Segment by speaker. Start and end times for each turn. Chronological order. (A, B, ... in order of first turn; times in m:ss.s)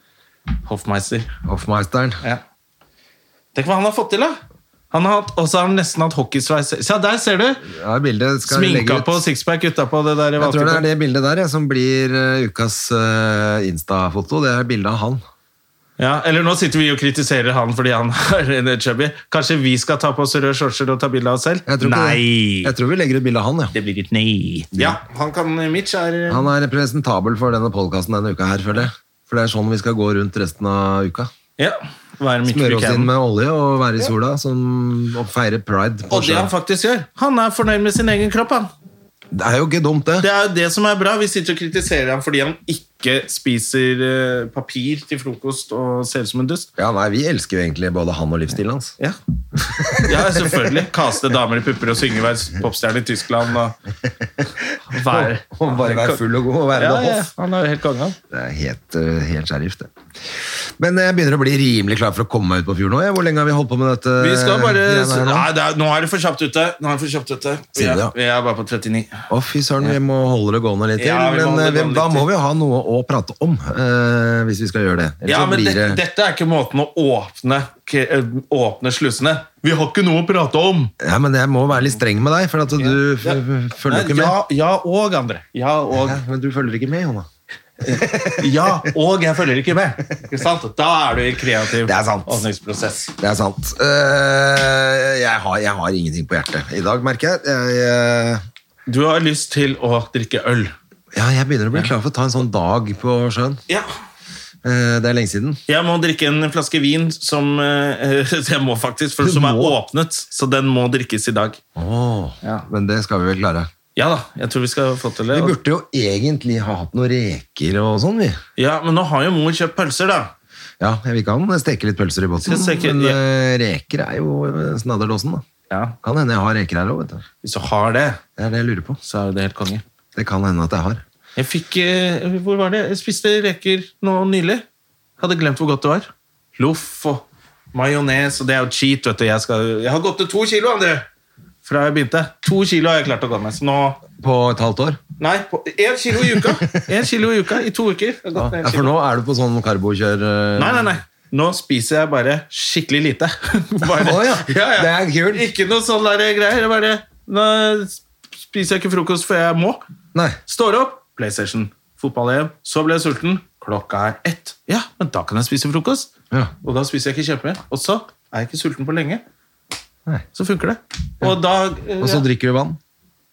0:00.6-0:01.3 A
0:01.4-0:02.2 B
0:03.6-0:04.4 A
0:04.9-0:07.7 A
0:07.6-0:09.2 B
0:08.4-0:10.9 A
0:10.4-0:15.2 B
0:16.0-0:22.7 A
0:21.7-0:23.8 B
0:23.7-0:26.5 A
0:24.7-0:25.0 B
0:26.3-0:31.3 B
0:31.6-0:33.1 A
0:32.5-0:36.5 B
0:36.1-0:38.7 A
0:39.3-0:40.3 B
0:40.2-0:46.7 A
0:46.8-0:49.0 B
0:49.8-0:50.7 B
0:49.9-0:53.8 A
0:54.9-0:56.2 A
0:54.9-0:57.3 B
0:56.7-0:58.2 A
0:58.3-1:05.5 B
1:04.2-1:09.3 A
1:07.8-1:08.1 B
1:09.3-1:16.0 B
1:11.0-1:12.3 A
1:15.2-1:20.9 A
1:21.0-1:24.4 B
1:22.8-1:26.2 A
1:26.0-1:27.3 B
1:27.8-1:33.1 A
1:27.8-1:28.9 B
1:31.8-1:32.4 B
1:33.2-1:38.4 B
1:38.9-1:40.8 A
1:41.1-1:43.6 B
1:44.6-1:45.6 B
1:45.7-1:51.6 A
1:49.2-1:49.8 B
1:51.8-1:53.7 B
1:54.0-1:55.6 A
1:55.3-1:58.4 B
1:58.6-2:00.3 A
2:00.8-2:05.4 B
2:02.4-2:03.2 A
2:05.7-2:06.0 A
2:06.0-2:07.2 B
2:07.4-2:08.2 A
2:08.4-2:09.0 B
2:09.0-2:09.8 A
2:10.2-2:11.0 B
2:11.4-2:14.6 A
2:15.2-2:21.1 A
2:21.6-2:24.0 A
2:24.2-2:25.0 B
2:25.2-2:29.0 A
2:26.2-2:26.9 B
2:28.4-2:30.9 B
2:30.6-2:39.8 A
2:33.9-2:35.5 B
2:40.5-2:46.1 A
2:46.6-2:49.2 A
2:50.4-2:52.2 A
2:52.0-2:52.8 B